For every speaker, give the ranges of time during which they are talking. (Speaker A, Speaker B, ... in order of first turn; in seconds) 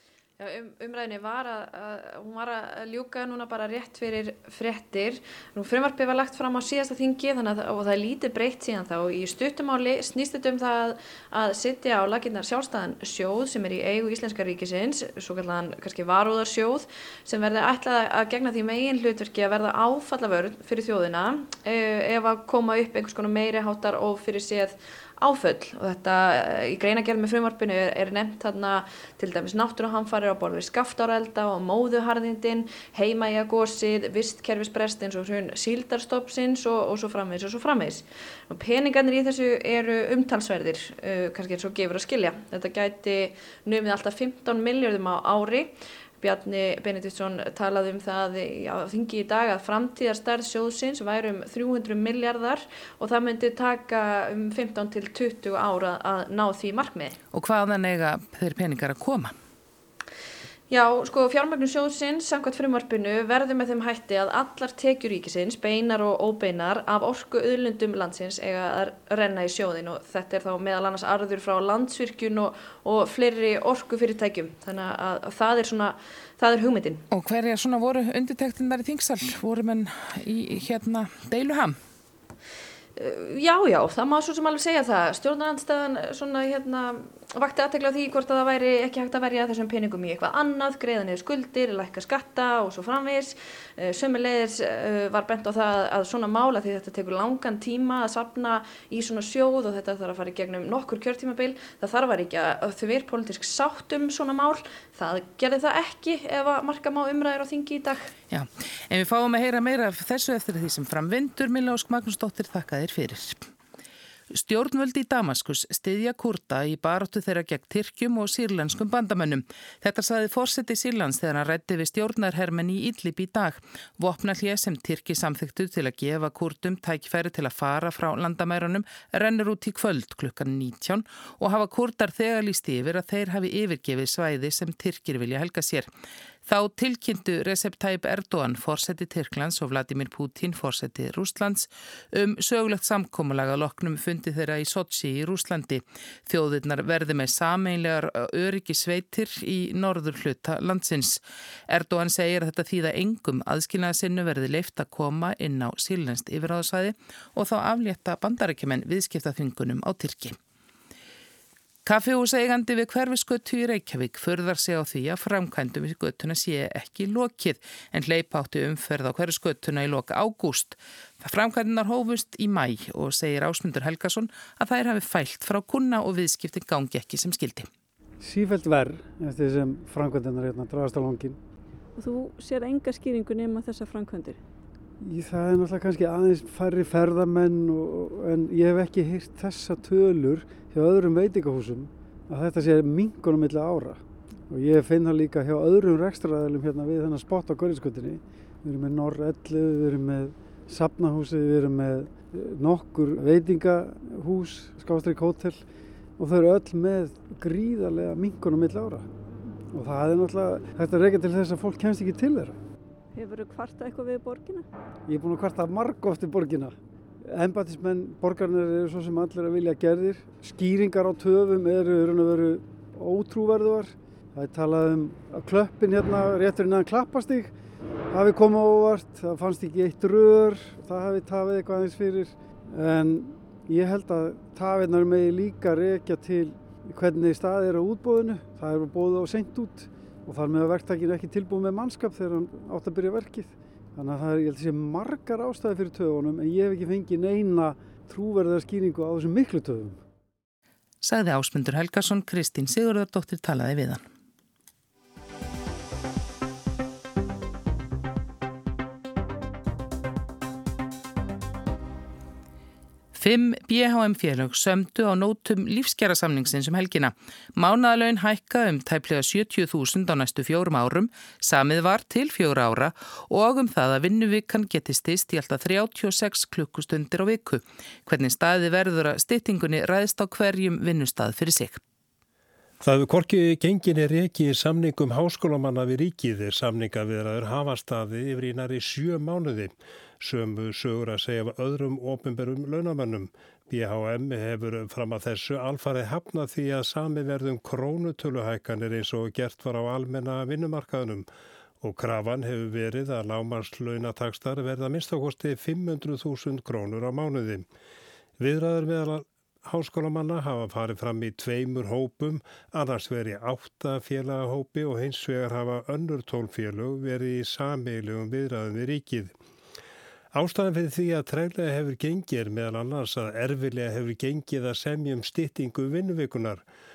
Speaker A: 0.4-57.2, 60.7-77.0, 83.0-108.1
Speaker B: 57.3-59.3, 77.1-81.8, 108.3-113.4, 114.3-135.9, 136.4-160.3, 161.8-177.7, 251.0-254.0, 263.1-281.8
Speaker C: 178.2-181.4, 185.0-205.6, 206.2-209.1, 209.7-212.6, 215.1-216.8, 217.3-227.5, 228.1-250.0
Speaker D: 182.0-184.4, 213.1-214.7
Speaker E: 282.8-301.3, 301.8-307.7, 308.4-319.3, 320.3-326.6